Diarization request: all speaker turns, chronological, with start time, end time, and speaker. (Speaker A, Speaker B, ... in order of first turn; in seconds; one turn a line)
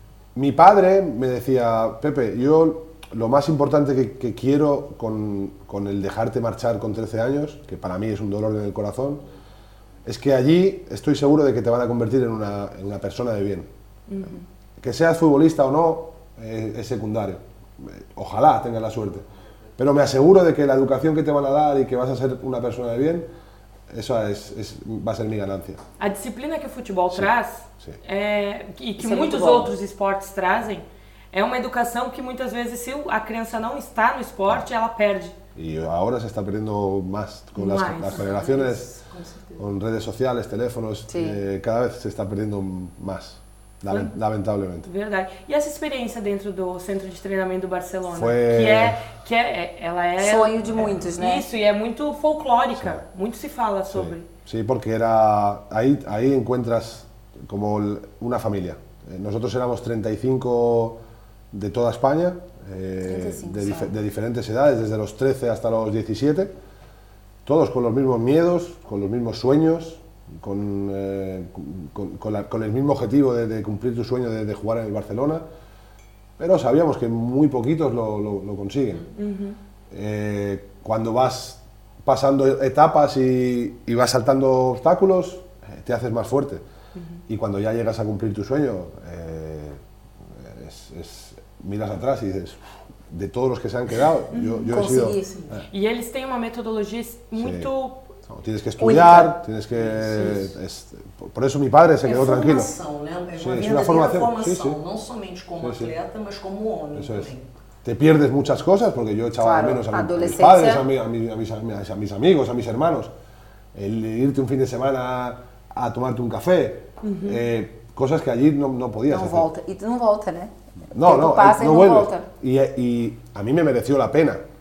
Speaker A: 0.3-9.2
Speaker A: 10.1-13.7
Speaker B: 14.1-14.4
Speaker A: 14.8-19.2
Speaker A: 19.8-23.3
Speaker A: 23.9-25.8
Speaker B: 26.0-35.3
Speaker A: 27.1-28.0
Speaker C: 29.0-29.7
Speaker A: 35.5-38.9
Speaker B: 37.6-38.2
Speaker D: 38.1-39.7
Speaker A: 39.6-44.9
Speaker C: 41.1-41.4
Speaker B: 44.9-54.3
Speaker A: 48.1-49.0
Speaker C: 50.2-51.5
Speaker A: 52.8-53.0
Speaker A: 53.9-61.0
Speaker A: 61.5-66.5
Speaker C: 63.0-63.9
Speaker A: 67.5-75.5
Speaker A: 76.4-79.0
Speaker B: 79.1-79.6
Speaker A: 79.9-86.6
Speaker A: 87.3-95.6
Speaker C: 94.3-95.3
Speaker D: 95.2-95.6
Speaker B: 95.7-98.1
Speaker A: 97.3-97.7
Speaker A: 98.3-102.7
Speaker D: 98.8-100.5
Speaker D: 102.0-107.5
Speaker A: 103.4-104.8
Speaker A: 105.6-105.9
Speaker A: 107.0-107.3
Speaker A: 107.8-113.1
Speaker C: 109.4-110.8
Speaker A: 113.7-119.5
Speaker B: 117.0-117.4
Speaker C: 119.1-122.3
Speaker A: 120.9-124.4